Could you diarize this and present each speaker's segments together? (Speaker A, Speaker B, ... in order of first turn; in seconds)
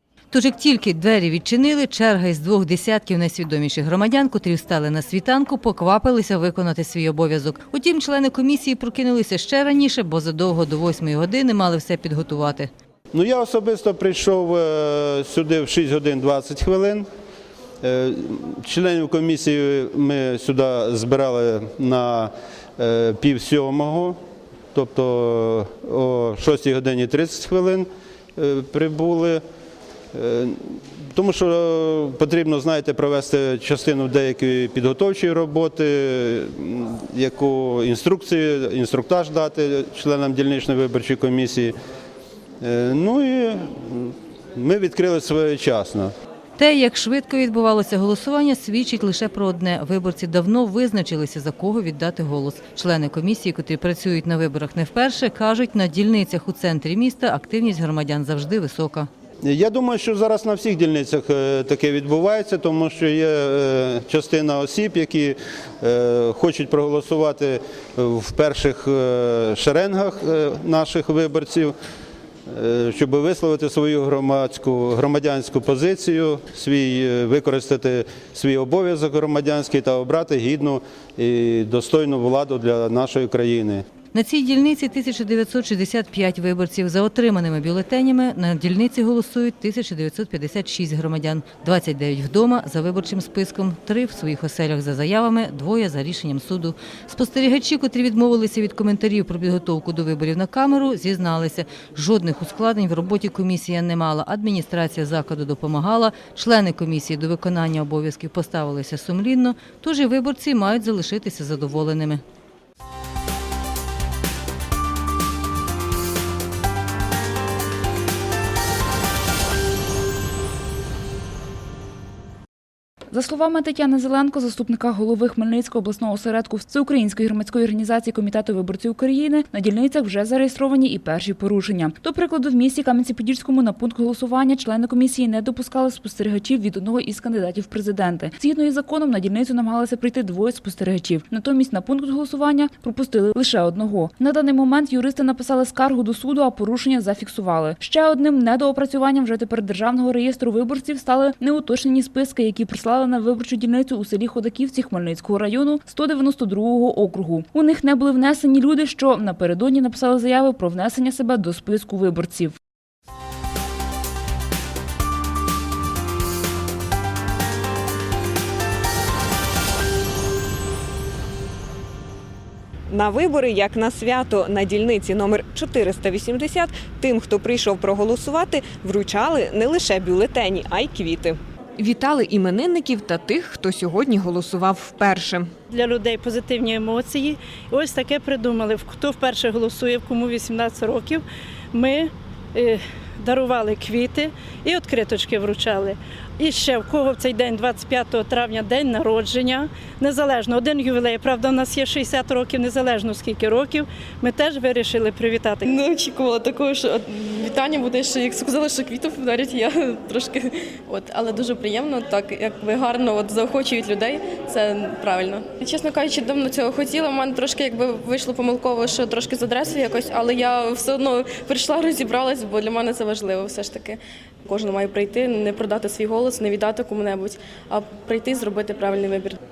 Speaker A: 0.3-12.7, 46.6-59.1, 84.1-112.2
Speaker B: 13.1-17.1, 17.8-24.2, 24.7-29.4, 30.1-41.7, 42.6-46.1, 59.5-71.7, 72.5-83.8
Speaker C: 123.1-162.6
Speaker D: 172.9-185.5
Speaker E: 185.7-205.7
Speaker F: 205.7-210.4, 210.9-223.9, 224.5-229.3